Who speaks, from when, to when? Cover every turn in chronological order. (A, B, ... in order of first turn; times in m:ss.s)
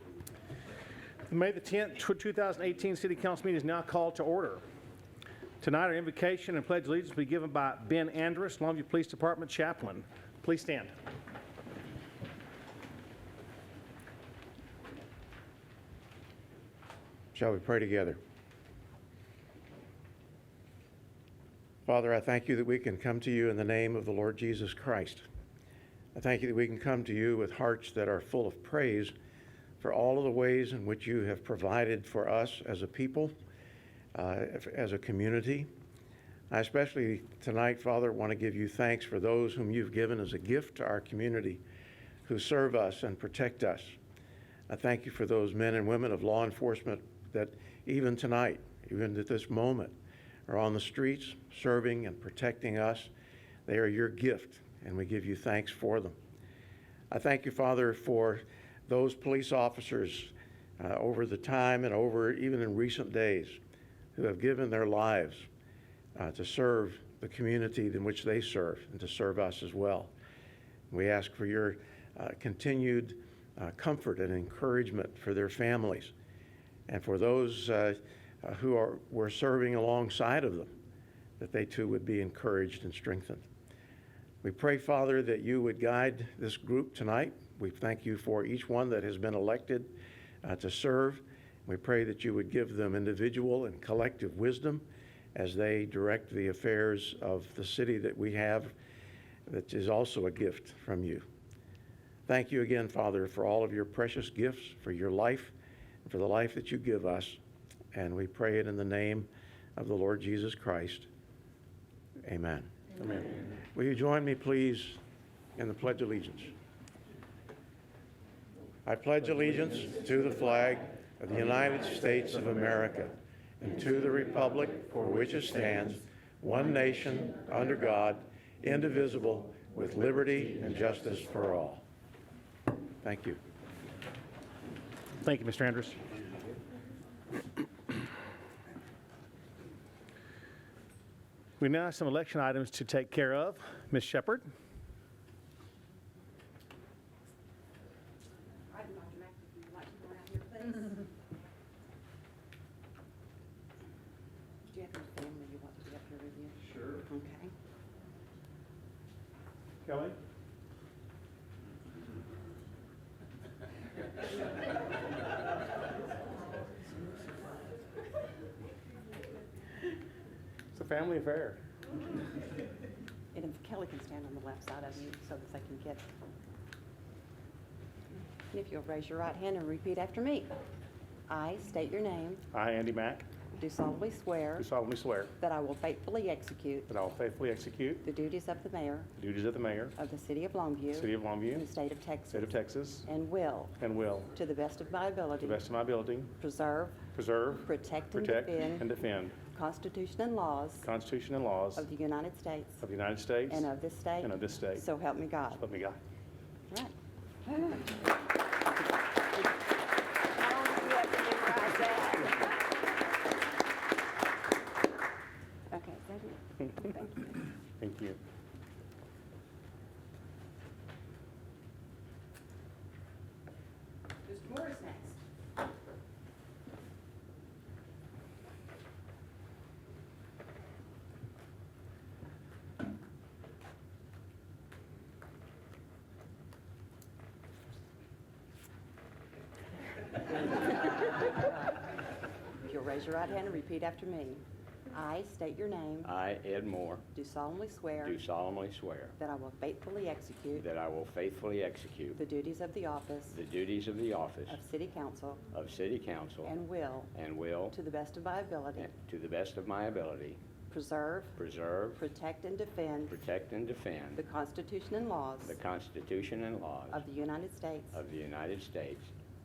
0:01.3-0:04.6 A
0:05.6-0:11.0 A
0:17.3-0:18.2 B
0:21.9-0:25.3 B
0:26.2-0:29.1 B
0:29.8-0:33.3 B
0:34.1-0:35.7 B
0:36.5-0:41.6 B
0:42.2-0:44.0 B
0:44.7-0:50.0 B
0:50.5-0:53.1 B
0:53.7-0:56.2 B
0:57.1-1:03.6 B
1:04.1-1:05.5 B
1:06.1-1:10.1 B
1:10.9-1:16.1 B
1:16.9-1:20.7 B
1:21.4-1:23.4 B
1:24.4-1:38.8 B
1:39.5-1:41.3 B
1:42.3-1:45.5 B
1:46.0-1:47.4 B
1:47.9-1:51.1 B
1:52.2-1:52.7 B
1:53.0-1:53.4 A
1:53.7-1:55.0 B
1:55.6-1:56.5 B
1:58.9-2:11.8 B
2:13.0-2:13.4 B
2:15.2-2:16.0 A
2:21.6-2:24.5 A
2:28.7-2:31.0 C
2:34.7-2:37.5 C
2:39.8-2:40.2 A
2:50.7-2:51.6 A
2:53.3-2:56.1 C
2:58.5-3:00.5 C
3:01.3-3:02.4 C
3:02.5-3:03.3 A
3:03.5-3:04.7 C
3:04.6-3:05.3 A
3:05.4-3:06.9 C
3:06.9-3:08.0 A
3:08.0-3:09.1 C
3:09.2-3:09.9 A
3:10.0-3:12.5 C
3:10.9-3:11.6 A
3:12.3-3:13.1 A
3:13.0-3:13.8 C
3:13.8-3:14.3 A
3:14.3-3:15.6 C
3:15.4-3:16.3 A
3:16.4-3:17.0 C
3:17.1-3:19.4 A
3:17.5-3:18.9 C
3:19.4-3:20.9 C
3:20.8-3:21.8 A
3:21.8-3:22.8 C
3:22.8-3:23.7 A
3:23.5-3:25.6 C
3:24.2-3:24.8 A
3:25.6-3:26.0 A
3:26.7-3:26.9 C
3:27.4-3:27.9 C
3:30.4-3:32.5 C
3:35.7-3:37.4 C
3:37.8-3:38.2 A
3:44.2-3:45.2 C
4:01.0-4:01.8 C
4:02.6-4:06.1 C
4:06.0-4:07.0 D
4:07.1-4:08.2 C
4:08.0-4:09.2 D
4:09.2-4:10.7 C
4:10.5-4:12.2 D
4:12.2-4:13.4 C
4:13.3-4:14.6 D
4:14.5-4:15.4 C
4:15.5-4:16.5 D
4:16.4-4:17.1 C
4:17.1-4:17.8 D
4:17.7-4:18.9 C
4:18.8-4:20.4 D
4:20.7-4:21.4 C
4:21.4-4:22.0 D
4:21.9-4:23.2 C
4:23.1-4:24.2 D
4:24.1-4:25.6 C
4:25.4-4:27.0 D
4:26.9-4:28.0 C
4:27.9-4:29.1 D